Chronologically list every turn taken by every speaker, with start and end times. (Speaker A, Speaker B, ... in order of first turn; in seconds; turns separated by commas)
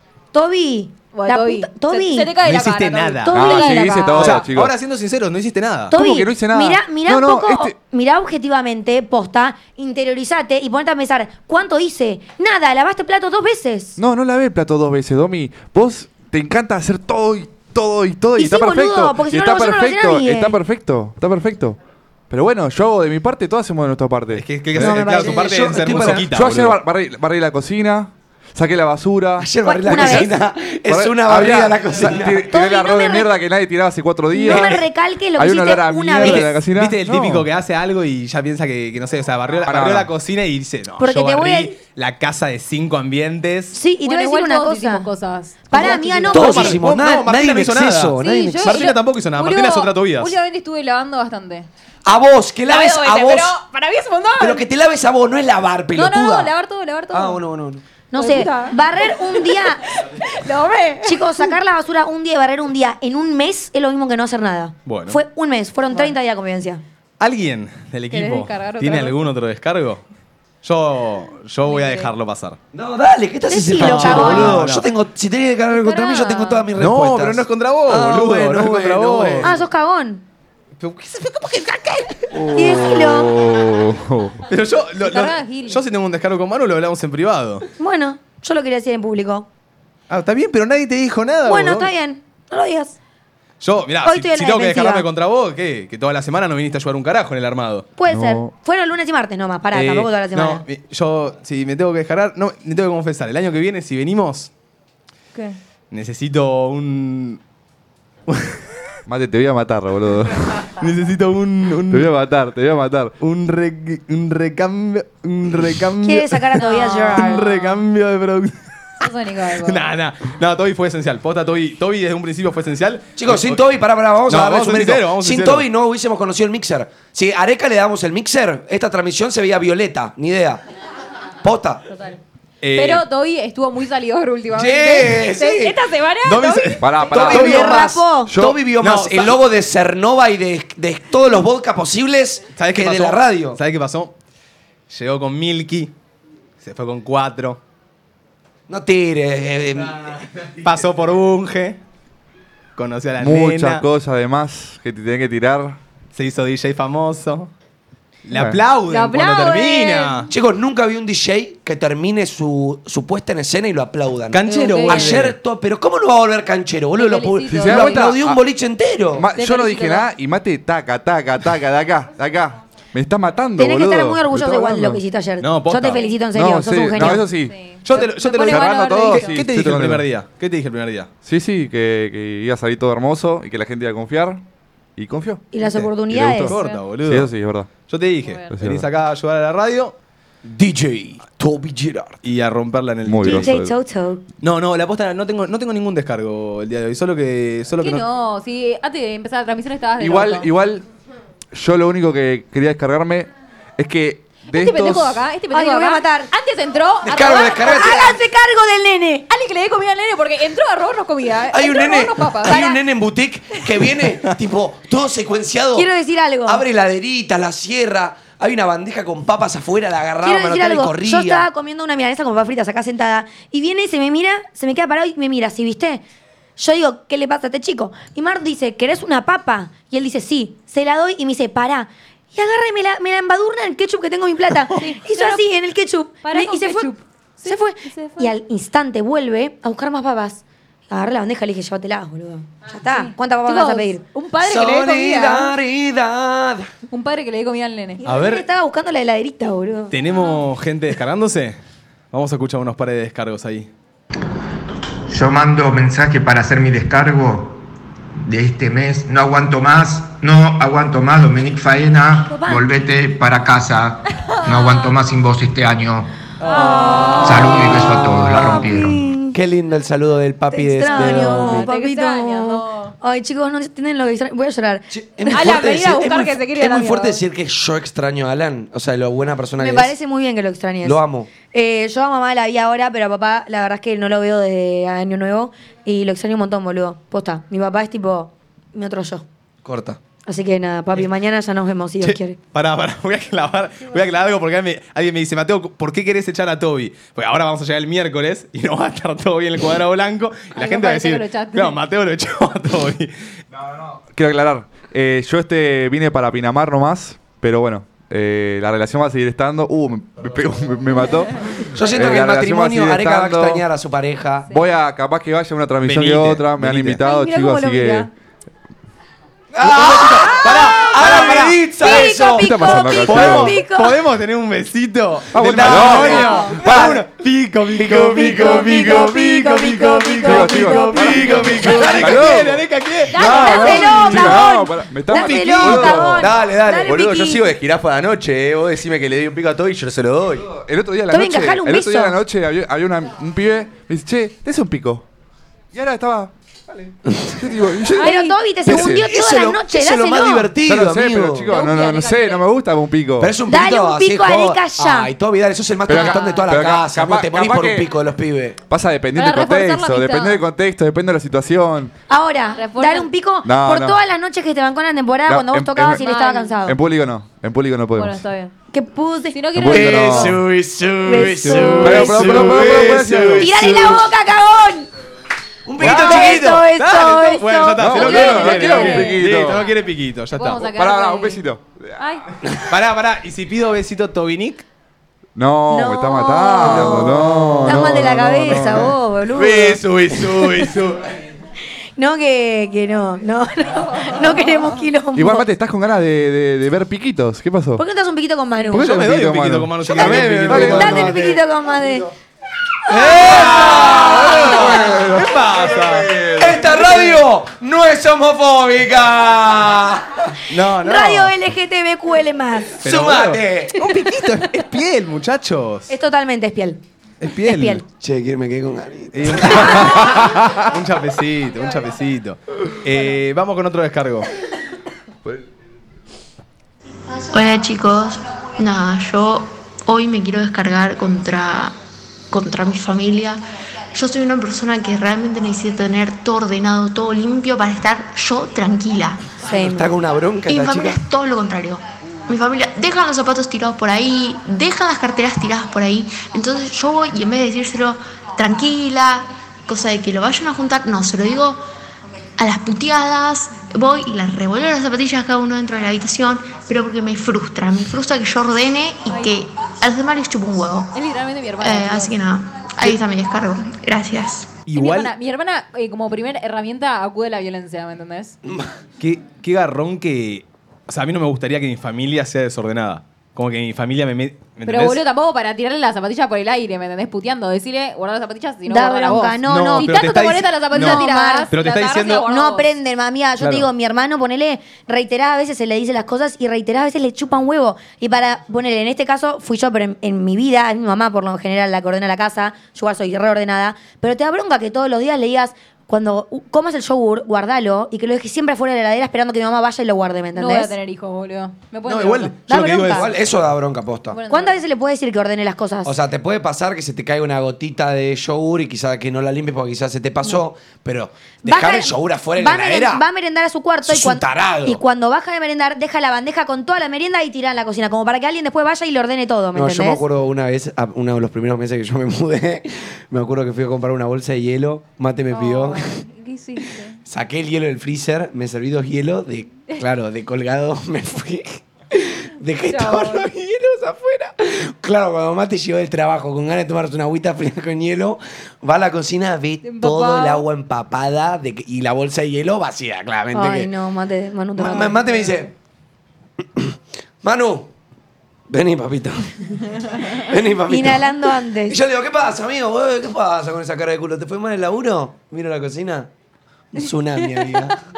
Speaker A: 0.3-2.3, Speaker B: 1.1-4.5, Speaker C: 2.4-6.0, Speaker A: 3.3-4.1, Speaker D: 3.3-4.7, Speaker A: 5.9-14.0, Speaker D: 5.9-7.7, Speaker D: 14.0-21.8, Speaker A: 18.4-20.6, Speaker D: 22.3-25.0, Speaker C: 24.3-26.8, Speaker A: 24.8-25.5, Speaker E: 24.8-26.3, Speaker D: 26.3-30.3, Speaker E: 29.4-32.5, Speaker A: 29.6-30.3, Speaker D: 30.9-37.5, Speaker A: 32.5-33.3, Speaker A: 34.3-36.6, Speaker C: 36.2-43.8, Speaker D: 39.7-40.1, Speaker A: 41.0-41.8, Speaker A: 43.7-45.1, Speaker B: 44.0-46.7, Speaker A: 45.7-46.8, Speaker C: 45.8-50.3, Speaker E: 46.3-48.7, Speaker A: 48.2-48.9, Speaker B: 48.4-51.7, Speaker E: 52.1-53.6, Speaker B: 52.7-54.7, Speaker E: 54.4-56.5, Speaker B: 56.0-57.4, Speaker E: 57.1-57.8, Speaker A: 58.1-59.8, Speaker B: 58.1-61.6, Speaker A: 61.0-66.8, Speaker C: 64.8-65.2, Speaker B: 65.9-66.2, Speaker C: 67.2-70.0, Speaker B: 68.1-69.2, Speaker C: 70.6-72.6, Speaker B: 71.7-72.1, Speaker E: 72.7-79.5, Speaker A: 73.5-74.6, Speaker C: 73.7-74.9, Speaker B: 75.7-76.7, Speaker C: 76.8-79.5, Speaker A: 79.4-80.2, Speaker C: 80.8-82.4, Speaker D: 82.4-84.4, Speaker A: 82.5-83.4, Speaker C: 84.5-87.7, Speaker B: 85.0-85.8, Speaker A: 87.8-89.5, Speaker C: 90.1-91.9, Speaker A: 91.5-93.0, Speaker C: 93.6-97.9, Speaker A: 94.0-95.1, Speaker A: 98.0-100.6, Speaker D: 98.1-98.5, Speaker C: 99.7-104.5, Speaker C: 105.9-107.4, Speaker C: 108.3-108.6, Speaker D: 109.1-110.6, Speaker C: 110.8-112.1, Speaker D: 111.9-113.2, Speaker C: 113.2-116.6, Speaker A: 116.0-117.4, Speaker B: 116.6-117.8, Speaker C: 117.2-119.0, Speaker B: 119.0-119.9, Speaker C: 119.6-123.7, Speaker E: 123.2-130.6, Speaker C: 124.3-125.7, Speaker E: 131.4-131.9, Speaker B: 131.9-132.2, Speaker C: 132.6-133.1, Speaker B: 132.8-137.1, Speaker E: 134.5-135.8, Speaker C: 136.2-136.9, Speaker D: 136.8-138.6, Speaker E: 137.1-143.6, Speaker A: 137.2-138.3, Speaker C: 137.4-137.7, Speaker C: 138.8-139.4, Speaker C: 142.6-144.2, Speaker C: 144.9-145.9, Speaker C: 146.6-147.6, Speaker E: 148.7-150.2, Speaker C: 150.6-151.8, Speaker C: 152.8-153.8, Speaker D: 153.2-155.8, Speaker C: 156.2-157.5, Speaker C: 158.2-160.3, Speaker D: 158.3-158.6, Speaker B: 158.9-160.3, Speaker E: 160.3-169.3, Speaker C: 164.3-165.4, Speaker B: 164.5-165.1, Speaker B: 167.0-168.1, Speaker D: 167.6-168.4, Speaker D: 169.1-175.0, Speaker B: 169.4-170.1, Speaker A: 173.6-177.3, Speaker C: 175.4-176.1, Speaker D: 176.3-177.6, Speaker B: 177.3-179.3, Speaker C: 177.8-181.1, Speaker D: 178.2-180.1, Speaker D: 181.2-184.4, Speaker D: 185.0-185.4, Speaker A: 185.5-186.6, Speaker C: 185.6-187.3, Speaker D: 186.1-187.7, Speaker B: 186.6-186.8, Speaker C: 187.9-189.9, Speaker D: 188.5-188.8, Speaker E: 190.4-192.2, Speaker C: 192.2-193.5, Speaker D: 193.1-193.8, Speaker A: 193.2-194.2, Speaker C: 194.4-198.0, Speaker B: 197.8-200.5, Speaker D: 200.0-200.8, Speaker D: 201.5-205.2, Speaker B: 204.5-208.2, Speaker A: 205.5-206.3, Speaker E: 207.1-208.2, Speaker A: 207.6-209.3, Speaker B: 209.3-212.8, Speaker E: 211.5-215.9, Speaker A: 215.7-216.7, Speaker E: 216.4-221.5, Speaker A: 220.2-226.0, Speaker A: 226.6-244.0, Speaker B: 234.8-235.4, Speaker B: 236.2-238.3, Speaker B: 242.8-245.6, Speaker E: 244.4-246.7, Speaker B: 246.9-248.0, Speaker A: 248.0-249.9, Speaker C: 248.1-248.4, Speaker C: 249.9-251.6, Speaker C: 252.1-253.7, Speaker F: 255.1-257.6, Speaker F: 258.2-266.1, Speaker A: 262.3-262.7, Speaker B: 264.3-264.9, Speaker E: 266.4-267.2, Speaker B: 266.5-267.7, Speaker A: 266.5-269.4, Speaker F: 267.2-269.0, Speaker E: 269.3-271.7, Speaker A: 270.5-275.6, Speaker B: 270.9-272.9, Speaker E: 274.9-279.9, Speaker B: 275.3-277.2, Speaker A: 279.6-289.2, Speaker E: 280.8-281.3, Speaker E: 289.6-290.0, Speaker A: 290.3-292.4, Speaker C: 292.0-303.1, Speaker B: 300.6-301.8, Speaker D: 303.5-313.6, Speaker E: 311.7-314.5, Speaker D: 314.5-318.1, Speaker C: 315.8-317.0, Speaker A: 317.0-318.0, Speaker B: 317.3-318.0, Speaker E: 319.5-322.8, Speaker C: 319.6-322.0, Speaker A: 321.0-324.0, Speaker D: 322.3-323.6, Speaker C: 323.1-334.5, Speaker D: 325.3-327.0, Speaker E: 325.4-327.0, Speaker B: 326.0-326.6, Speaker A: 326.1-326.8, Speaker A: 327.9-332.0, Speaker D: 330.2-332.6, Speaker E: 331.8-332.2, Speaker B: 333.1-334.2, Speaker A: 333.2-337.5, Speaker D: 333.3-336.3, Speaker C: 335.1-336.1, Speaker G: 336.2-340.5, Speaker D: 340.4-345.1, Speaker A: 341.1-342.2, Speaker D: 345.7-349.1, Speaker B: 348.0-348.4, Speaker A: 348.0-350.5, Speaker E: 348.6-351.5, Speaker D: 350.7-353.4, Speaker B: 351.5-352.5, Speaker E: 353.2-358.6, Speaker A: 353.5-355.1, Speaker D: 355.9-357.9, Speaker B: 355.9-356.4, Speaker D: 358.7-361.9, Speaker B: 359.1-360.4, Speaker A: 362.1-366.8, Speaker B: 362.6-363.1, Speaker D: 363.4-364.0, Speaker D: 365.3-366.1, Speaker B: 366.0-366.6, Speaker D: 366.6-368.2, Speaker B: 368.0-368.5, Speaker A: 368.7-370.1, Speaker B: 369.3-370.4, Speaker D: 369.6-370.4, Speaker E: 369.7-374.0, Speaker A: 371.1-372.7, Speaker C: 371.2-372.5, Speaker D: 371.8-373.5, Speaker A: 373.3-374.9, Speaker E: 375.7-376.7, Speaker C: 375.8-380.7, Speaker A: 375.8-379.1, Speaker D: 377.8-379.6, Speaker B: 378.2-379.2, Speaker B: 380.3-381.4, Speaker D: 380.7-382.0, Speaker B: 382.0-382.3, Speaker C: 382.7-384.6, Speaker D: 385.4-388.9, Speaker A: 385.7-389.8, Speaker E: 386.6-388.0, Speaker C: 389.4-391.0, Speaker E: 390.5-390.7, Speaker A: 392.0-395.4, Speaker B: 393.9-394.8, Speaker D: 395.1-397.8, Speaker A: 397.8-398.9, Speaker C: 398.7-401.1, Speaker D: 398.7-401.4, Speaker E: 399.9-401.3, Speaker A: 400.5-402.1, Speaker A: 402.9-404.4, Speaker E: 402.9-405.1, Speaker C: 403.3-406.1, Speaker D: 403.8-406.8, Speaker E: 406.1-410.2, Speaker C: 410.5-411.3, Speaker A: 410.8-412.8, Speaker C: 412.8-415.9, Speaker E: 412.9-413.8, Speaker A: 415.9-416.8, Speaker C: 417.2-417.8, Speaker A: 417.3-417.8, Speaker E: 418.0-420.0, Speaker C: 419.1-424.3, Speaker D: 420.1-420.5, Speaker H: 427.3-431.8, Speaker H: 432.3-439.3, Speaker A: 439.4-439.9, Speaker E: 439.6-441.0, Speaker H: 440.5-451.6, Speaker H: 452.4-460.9, Speaker B: 459.1-459.3, Speaker B: 460.9-462.1, Speaker H: 461.6-464.5, Speaker C: 464.7-465.1, Speaker B: 464.8-468.4, Speaker C: 469.0-475.0, Speaker B: 474.7-482.7, Speaker A: 478.7-481.5, Speaker C: 479.4-482.3, Speaker A: 482.2-500.7, Speaker C: 483.4-483.7, Speaker B: 500.4-502.4, Speaker C: 501.9-503.1, Speaker A: 502.5-503.2, Speaker E: 502.9-504.2, Speaker B: 504.1-504.6, Speaker A: 504.3-505.9, Speaker E: 505.9-513.0, Speaker A: 511.4-520.0, Speaker E: 513.9-514.8, Speaker E: 519.5-526.0, Speaker B: 525.3-527.0, Speaker E: 527.1-543.7, Speaker B: 532.7-533.3, Speaker B: 539.6-540.4, Speaker A: 543.3-545.2, Speaker E: 544.5-545.5, Speaker E: 546.6-547.7, Speaker E: 548.5-556.1, Speaker A: 550.7-551.8, Speaker E: 556.7-557.8